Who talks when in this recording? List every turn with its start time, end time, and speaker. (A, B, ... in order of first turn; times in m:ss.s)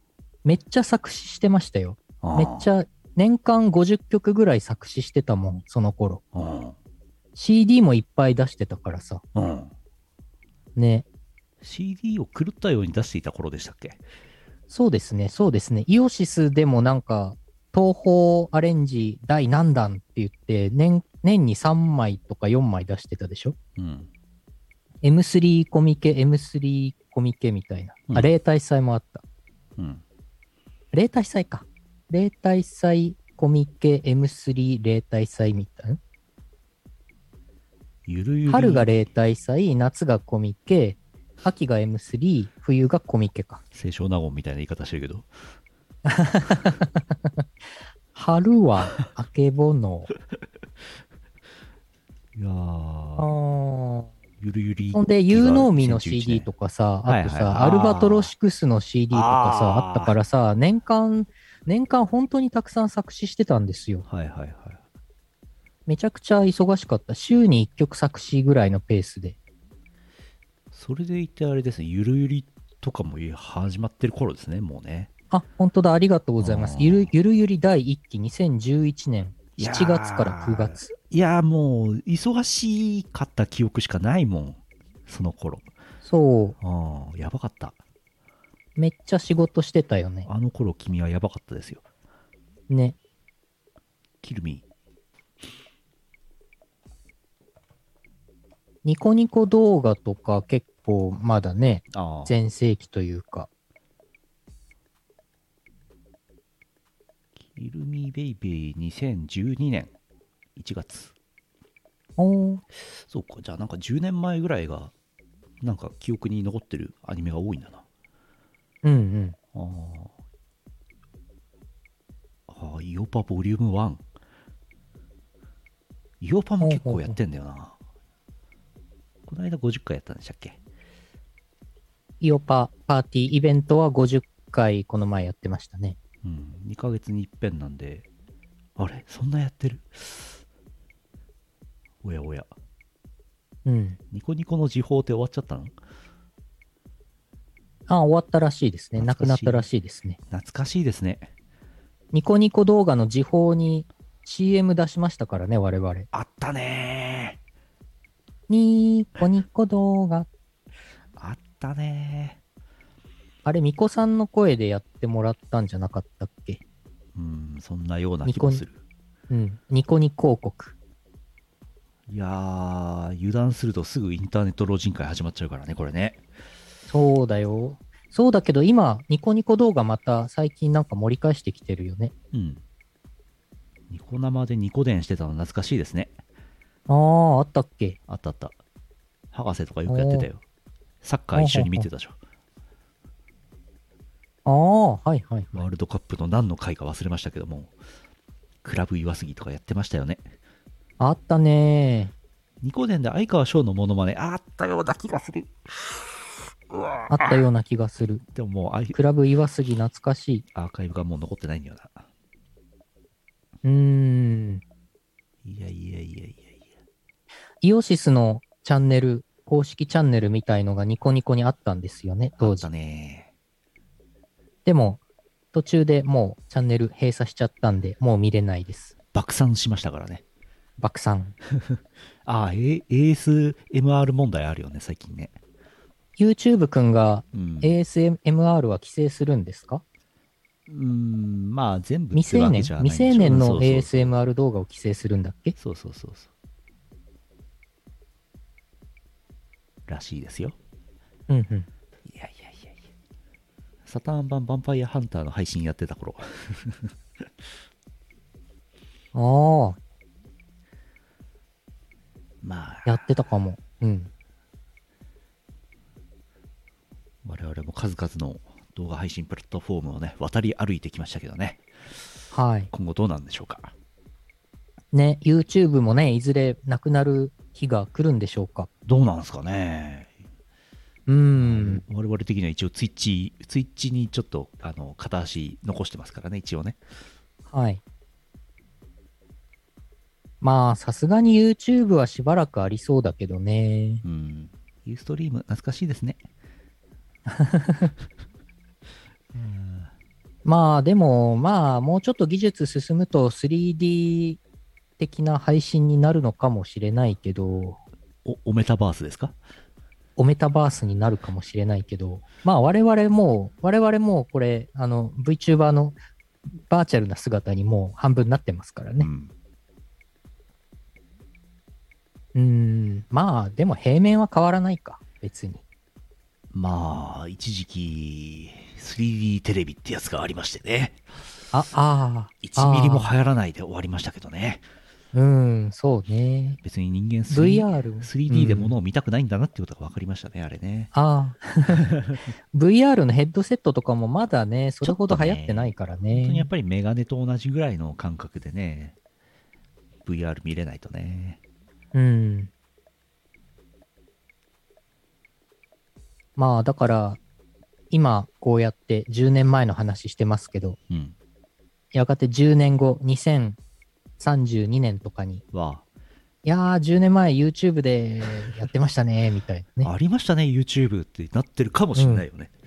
0:00.4-0:06.2 A
0:02.2-0:02.7 B
0:06.3-0:06.8 B
0:07.4-0:09.2 A
0:09.4-0:09.7 B
0:10.8-0:11.1 A
0:11.6-0:14.0 B
0:14.7-0:23.6 A
0:23.8-0:24.1 B
0:25.0-0:29.2 A
0:29.8-0:30.0 B
0:30.9-0:36.0 A
0:38.1-0:38.9 B
0:38.5-0:43.6 A
0:43.7-0:45.3 B
0:46.0-0:47.4 A
0:48.1-0:50.1 A
0:52.4-0:53.3 B
0:53.2-0:54.1 A
0:54.4-0:56.5 B
0:54.9-1:04.0 A
0:57.1-0:58.3 B
0:59.1-1:00.2 B
1:04.1-1:04.8 B
1:05.9-1:09.4 A
1:10.7-1:15.1 B
1:15.3-1:20.9 A
1:16.4-1:17.1 B
1:19.6-1:25.7 B
1:26.0-1:26.6 A
1:26.6-1:27.8 B
1:28.8-1:30.3 A
1:30.3-1:31.8 B
1:32.7-1:33.0 A
1:34.2-1:34.6 B
1:38.8-1:43.5 A
1:41.9-1:42.3 B
1:47.5-1:49.9 B
1:50.6-1:51.1 B
1:52.2-1:52.6 A
1:52.8-1:54.9 B
1:55.6-1:57.8 B
1:58.8-1:59.4 A
1:59.6-2:00.1 B
2:02.5-2:04.0 B
2:06.2-2:07.8 B
2:06.6-2:07.2 A
2:09.3-2:10.6 B
2:12.2-2:16.0 A
2:16.2-2:18.1 B
2:18.8-2:20.4 B
2:22.0-2:22.5 B
2:23.6-2:24.0 A
2:24.1-2:25.8 B
2:27.9-2:30.2 A
2:29.0-2:29.7 B
2:30.3-2:31.3 B
2:32.1-2:36.1 A
2:36.1-2:37.4 B
2:38.5-2:40.3 A
2:41.2-2:42.4 B
2:43.4-2:46.6 A
2:47.2-2:48.8 B
2:48.2-2:48.6 A
2:49.3-2:50.7 A
2:52.1-2:56.2 B
2:56.9-3:02.1 A
3:02.3-3:02.6 B
3:03.9-3:06.2 B
3:06.9-3:08.0 A
3:08.1-3:08.6 B
3:09.3-3:10.4 B
3:09.9-3:10.3 A
3:11.0-3:12.2 B
3:11.4-3:11.9 A
3:14.4-3:15.6 A
3:15.5-3:17.7 B
3:18.6-3:20.3 B
3:21.0-3:22.1 A
3:22.6-3:26.0 B
3:26.7-3:27.4 B
3:27.1-3:28.2 A
3:28.4-3:29.0 B
3:28.9-3:30.5 A
3:30.6-3:32.0 B
3:33.6-3:34.6 A
3:35.4-3:36.7 B
3:37.6-3:42.7 A
3:42.4-3:43.3 B
3:44.6-3:45.0 A
3:45.5-3:48.9 A
3:49.1-3:50.2 B
3:50.8-3:51.4 A
3:51.6-3:55.4 B
3:56.2-3:59.8 A
3:57.3-3:57.7 B
4:00.7-4:04.1 B
4:02.1-4:05.6 A
4:05.6-4:06.3 B
4:09.9-4:10.6 B
4:11.3-4:11.7 A
4:12.0-4:12.8 B
4:13.9-4:16.9 B
4:19.1-4:19.8 A
4:22.4-4:23.1 B
4:22.9-4:24.1 A
4:27.2-4:31.6 B
4:32.3-4:32.7 A
4:32.7-4:33.7 B
4:34.9-4:38.7 A
4:38.9-4:40.1 B
4:41.1-4:41.8 A
4:41.3-4:46.8 B
4:47.5-4:47.8 A
4:50.4-4:54.0 A
4:54.0-4:56.2 B
4:57.3-4:57.9 A
4:59.3-4:59.9 B
5:00.4-5:04.4 A
5:05.0-5:07.8 A
5:08.2-5:09.4 B
5:10.2-5:19.1 A
5:19.0-5:19.3 B
5:22.3-5:25.6 A
5:26.5-5:31.0 B
5:31.5-5:33.1 A
5:32.4-5:34.6 B
5:35.1-5:36.6 A
5:36.6-5:40.9 B
5:37.3-5:38.8 A
5:40.9-5:41.9 A
5:41.7-5:42.2 B
5:42.5-5:46.5 A
5:44.8-5:49.0 B
5:50.0-5:51.4 B
5:51.9-5:52.5 A
5:56.4-5:57.2 A
5:57.9-6:00.8 A
6:00.9-6:01.2 B
6:01.9-6:03.6 A
6:04.2-6:05.4 A
6:05.5-6:05.8 B
6:06.4-6:09.9 A
6:09.8-6:12.5 B
6:12.0-6:12.3 A